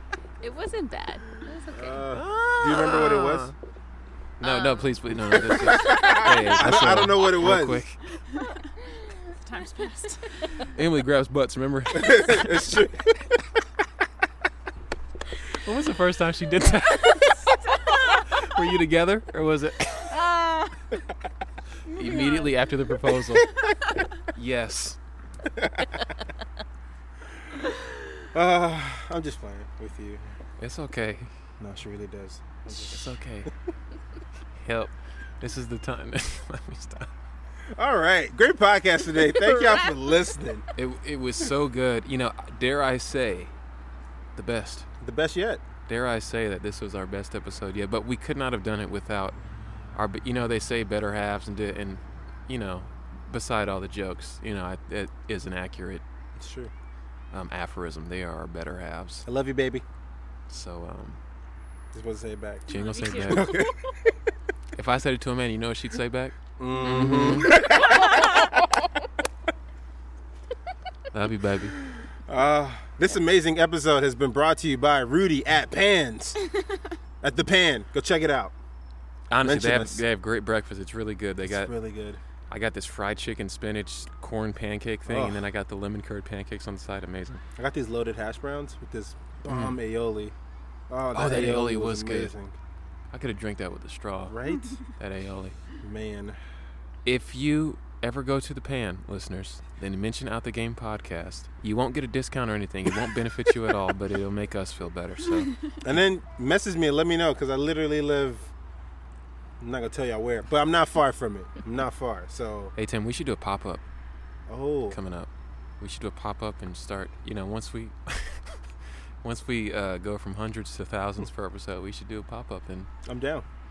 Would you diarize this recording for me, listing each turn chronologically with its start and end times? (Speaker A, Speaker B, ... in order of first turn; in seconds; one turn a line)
Speaker A: 0.4-2.1
Speaker B: 1.7-3.5
Speaker C: 2.1-3.5
Speaker C: 4.4-8.0
Speaker A: 4.4-4.9
Speaker B: 5.4-7.8
Speaker A: 5.8-6.6
Speaker D: 9.3-10.6
Speaker C: 10.7-12.7
Speaker B: 11.9-13.4
Speaker C: 15.5-20.3
Speaker D: 20.3-20.8
Speaker D: 21.9-22.5
Speaker C: 21.9-23.6
Speaker C: 24.3-25.0
Speaker B: 25.5-25.9
Speaker B: 28.3-30.2
Speaker C: 30.6-31.3
Speaker B: 31.6-33.2
Speaker C: 32.7-33.5
Speaker C: 34.5-37.1
Speaker B: 37.8-40.6
Speaker C: 40.8-43.5
Speaker C: 44.4-44.9
Speaker B: 45.0-45.6
Speaker C: 45.9-49.4
Speaker C: 50.0-56.0
Speaker B: 56.4-56.7
Speaker C: 57.3-59.3
Speaker B: 59.3-59.9
Speaker C: 60.5-61.2
Speaker B: 61.9-63.9
Speaker D: 62.7-63.5
Speaker C: 62.7-63.6
Speaker C: 64.8-67.7
Speaker B: 66.6-68.5
Speaker C: 71.1-71.8
Speaker B: 72.3-76.4
Speaker B: 77.2-78.5
Speaker C: 79.3-81.7
Speaker B: 79.4-80.0
Speaker B: 81.4-82.2
Speaker C: 82.5-87.4
Speaker B: 85.1-85.4
Speaker B: 87.6-90.3
Speaker C: 89.5-89.8
Speaker B: 90.9-92.6
Speaker C: 91.1-92.3
Speaker C: 93.1-95.6
Speaker B: 94.3-94.8
Speaker B: 95.8-96.4
Speaker C: 97.0-105.5
Speaker B: 105.8-108.5
Speaker B: 109.6-112.7
Speaker C: 112.8-113.8
Speaker B: 114.5-115.0
Speaker C: 114.9-118.6
Speaker C: 119.2-122.9
Speaker B: 123.0-123.5